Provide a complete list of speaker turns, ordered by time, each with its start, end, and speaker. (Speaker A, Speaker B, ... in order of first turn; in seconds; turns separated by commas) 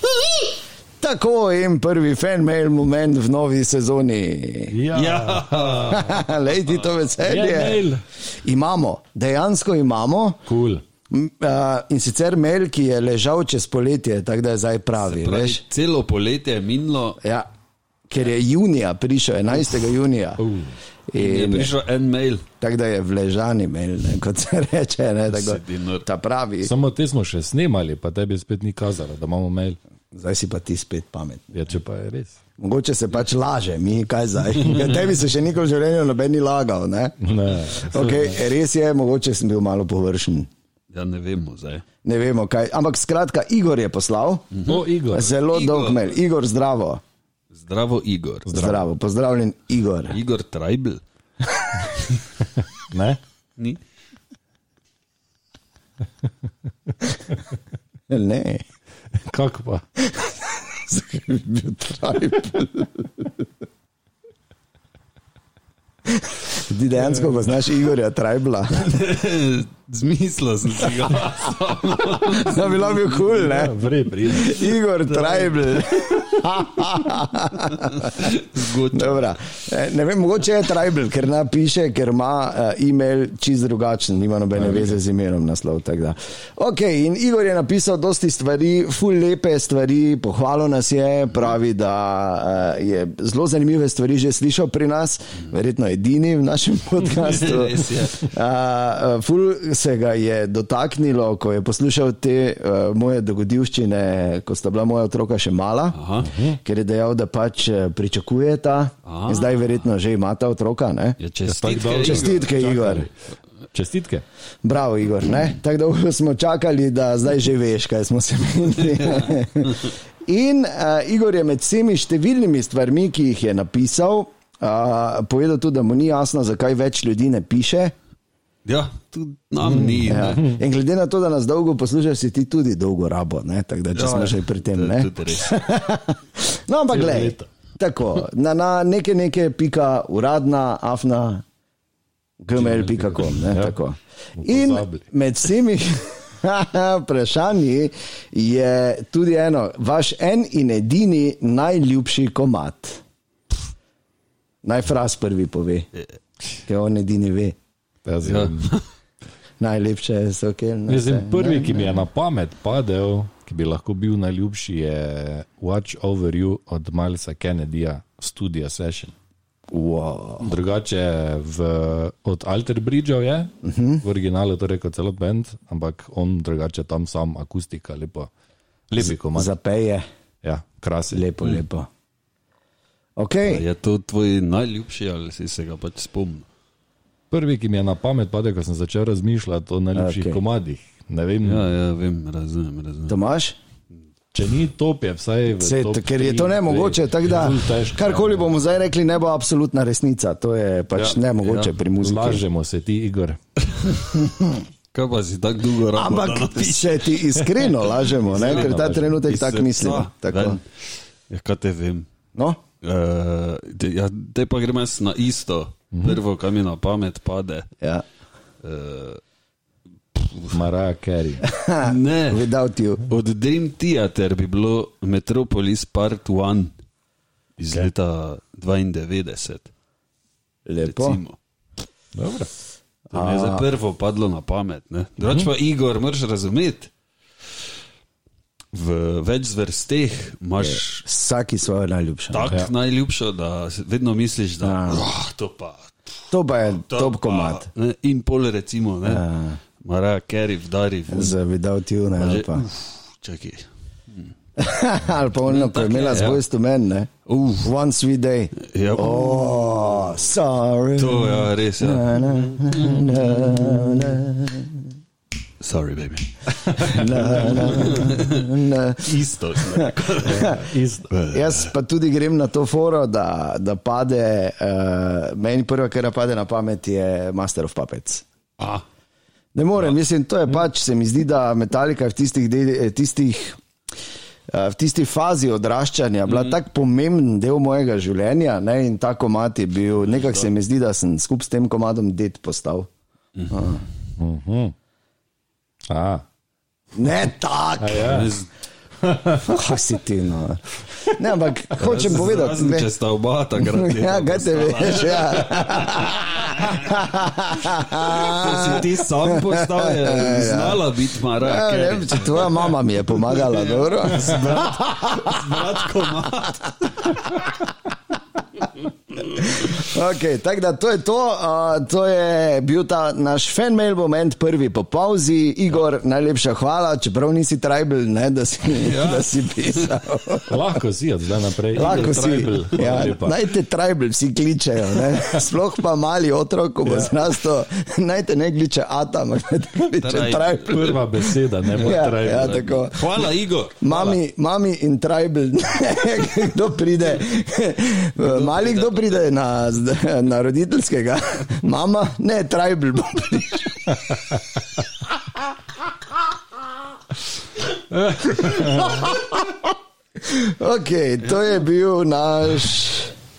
Speaker A: 1.0-4.8, Speaker B: 4.7-6.1, Speaker C: 4.9-6.2, Speaker A: 5.9-10.4, Speaker B: 7.2-8.0, Speaker B: 10.5-10.8, Speaker A: 11.1-15.6, Speaker C: 15.0-17.2, Speaker A: 18.1-20.4, Speaker B: 20.4-20.8, Speaker A: 21.1-21.7, Speaker C: 21.1-22.4, Speaker A: 22.6-26.7, Speaker C: 25.3-26.1, Speaker B: 26.6-29.8, Speaker A: 30.1-31.6, Speaker B: 31.5-32.4, Speaker A: 32.6-40.5, Speaker B: 37.2-38.4, Speaker C: 40.9-41.8, Speaker A: 42.0-44.5, Speaker C: 44.5-46.2, Speaker B: 44.7-45.3, Speaker A: 45.1-47.0, Speaker C: 47.5-48.5, Speaker B: 48.5-48.9, Speaker A: 48.5-50.2, Speaker C: 50.1-51.0, Speaker B: 52.9-53.2, Speaker A: 58.1-58.6, Speaker B: 59.2-59.8, Speaker A: 60.0-63.3, Speaker A: 66.1-68.9, Speaker C: 68.8-72.8, Speaker A: 72.3-78.3, Speaker B: 73.2-74.7, Speaker C: 75.1-75.9, Speaker C: 78.0-79.3, Speaker A: 78.9-106.0, Speaker B: 84.6-84.8, Speaker C: 97.2-98.3, Speaker C: 105.9-106.3, Speaker B: 106.2-106.6, Speaker A: 106.5-111.2, Speaker C: 109.1-109.7, Speaker C: 111.2-112.6, Speaker B: 111.5-113.1, Speaker A: 111.8-113.1, Speaker B: 113.7-114.2, Speaker A: 114.6-127.9, Speaker C: 128.7-130.4, Speaker B: 129.8-130.1, Speaker A: 130.0-141.4, Speaker C: 133.9-135.6, Speaker B: 136.9-137.5, Speaker A: 142.4-153.0, Speaker B: 142.5-143.8, Speaker B: 144.4-145.1, Speaker A: 154.6-155.9, Speaker A: 156.7-157.6, Speaker B: 158.1-158.7, Speaker C: 158.2-158.8, Speaker A: 159.6-162.0, Speaker B: 160.9-169.1, Speaker A: 169.7-170.5, Speaker B: 170.4-178.3, Speaker A: 173.6-174.0, Speaker B: 178.9-179.5, Speaker A: 179.0-180.0, Speaker B: 180.4-181.3, Speaker A: 181.1-181.9, Speaker A: 183.2-183.7, Speaker C: 183.4-186.5, Speaker B: 187.3-191.7, Speaker A: 189.9-190.4, Speaker C: 191.4-193.2, Speaker A: 193.1-193.6, Speaker B: 194.3-198.5, Speaker A: 195.6-202.4, Speaker C: 201.4-201.7, Speaker B: 202.0-203.4, Speaker A: 204.1-204.5, Speaker C: 204.9-207.1, Speaker A: 205.9-210.6, Speaker B: 208.3-209.2, Speaker C: 208.3-208.8, Speaker C: 209.3-210.7, Speaker C: 211.3-212.1, Speaker A: 212.3-212.6, Speaker C: 212.8-217.7, Speaker B: 215.9-216.2, Speaker C: 218.6-219.2, Speaker C: 220.2-220.6, Speaker B: 220.5-221.4, Speaker A: 221.4-223.0, Speaker C: 221.8-222.5, Speaker C: 223.1-226.7, Speaker C: 227.6-229.7, Speaker A: 230.7-231.2, Speaker C: 230.8-231.4, Speaker B: 232.2-232.5, Speaker C: 233.1-236.9, Speaker A: 233.1-233.7, Speaker C: 238.7-241.0, Speaker A: 240.6-242.6, Speaker C: 242.3-245.9, Speaker A: 244.6-245.1, Speaker A: 246.3-247.7, Speaker C: 246.9-249.2, Speaker A: 249.1-249.6, Speaker C: 249.8-251.3, Speaker A: 251.1-252.7, Speaker C: 252.2-254.3, Speaker A: 254.6-264.8, Speaker C: 255.5-256.4, Speaker C: 257.3-257.7, Speaker C: 258.6-260.3, Speaker C: 261.0-262.9, Speaker C: 265.6-271.7, Speaker A: 266.8-269.1, Speaker A: 269.7-270.7, Speaker B: 270.2-271.1, Speaker A: 271.3-278.2, Speaker C: 278.6-278.8, Speaker A: 279.5-283.6, Speaker A: 284.5-292.9, Speaker C: 290.1-290.5, Speaker C: 293.4-293.6, Speaker A: 293.5-293.8, Speaker B: 294.2-294.7, Speaker B: 295.9-296.2, Speaker A: 296.9-298.2, Speaker B: 297.8-298.3, Speaker C: 298.0-298.5, Speaker B: 299.0-299.6, Speaker A: 299.4-302.9, Speaker C: 301.8-306.9, Speaker A: 303.6-310.9, Speaker C: 307.9-312.8, Speaker A: 311.4-315.7, Speaker C: 313.3-317.2, Speaker A: 317.1-317.5, Speaker A: 319.3-330.6, Speaker C: 328.8-329.9, Speaker B: 330.5-333.4, Speaker A: 331.8-341.0, Speaker C: 331.8-333.2, Speaker B: 336.9-337.1, Speaker C: 340.0-344.2, Speaker B: 340.7-342.7, Speaker A: 341.8-343.1, Speaker A: 343.8-354.0, Speaker C: 348.2-349.2, Speaker B: 358.0-359.1, Speaker A: 358.4-359.3, Speaker A: 360.3-363.1